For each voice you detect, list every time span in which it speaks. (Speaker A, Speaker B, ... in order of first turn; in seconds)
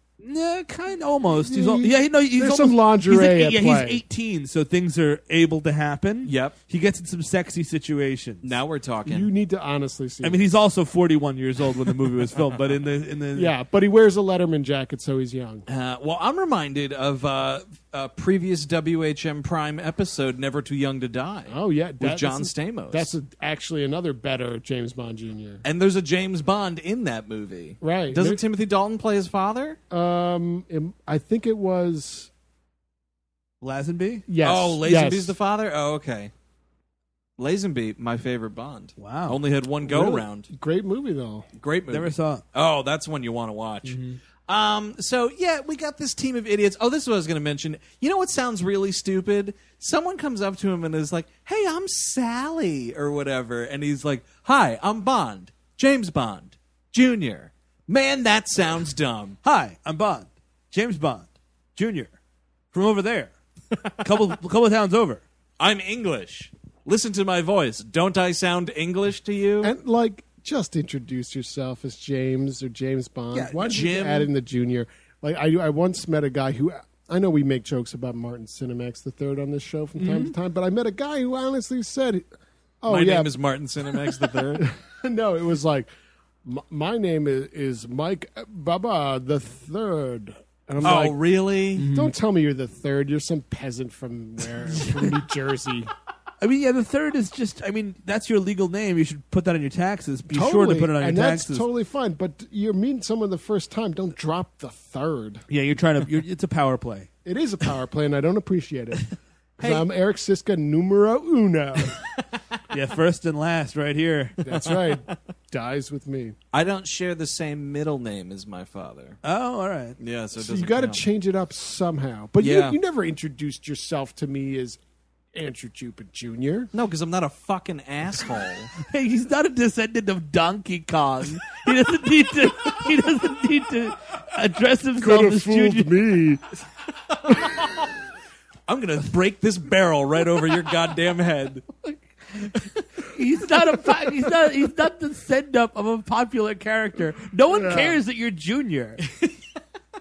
Speaker A: 0.2-8.6, 10.2-13.5, 33.6-34.2, 39.0-39.4, 41.9-42.4, 43.8-44.2, 59.4-62.1, 62.7-63.3, 64.0-65.2, 73.3-73.7, 80.0-80.3, 91.8-92.1, 96.4-101.6, 105.5-107.1, 112.7-114.4, 119.2-120.0, 128.8-135.9, 141.8-142.5, 143.1-149.0
Speaker B: 1.3-4.0, 9.1-10.5, 13.3-15.6, 21.5-25.6, 27.8-28.4, 29.9-32.3, 34.3-35.4, 39.8-41.5, 69.6-82.2, 82.8-83.3, 83.9-85.9, 86.4-91.2, 91.9-95.9, 100.3-105.4, 107.2-112.0, 114.4-116.3, 120.3-124.8, 125.3-126.7, 135.0-136.4, 137.3-137.6, 147.5-148.0
Speaker C: 6.2-6.5, 8.4-9.3, 15.7-23.1, 25.6-29.8, 34.4-36.3, 37.4-40.5, 41.6-59.4, 65.6-69.7, 73.6-74.3, 82.9-84.7, 90.8-91.9, 116.5-119.2, 120.0-121.0, 122.4-122.8, 126.7-128.7, 137.3-137.8, 138.7-141.7, 149.1-149.3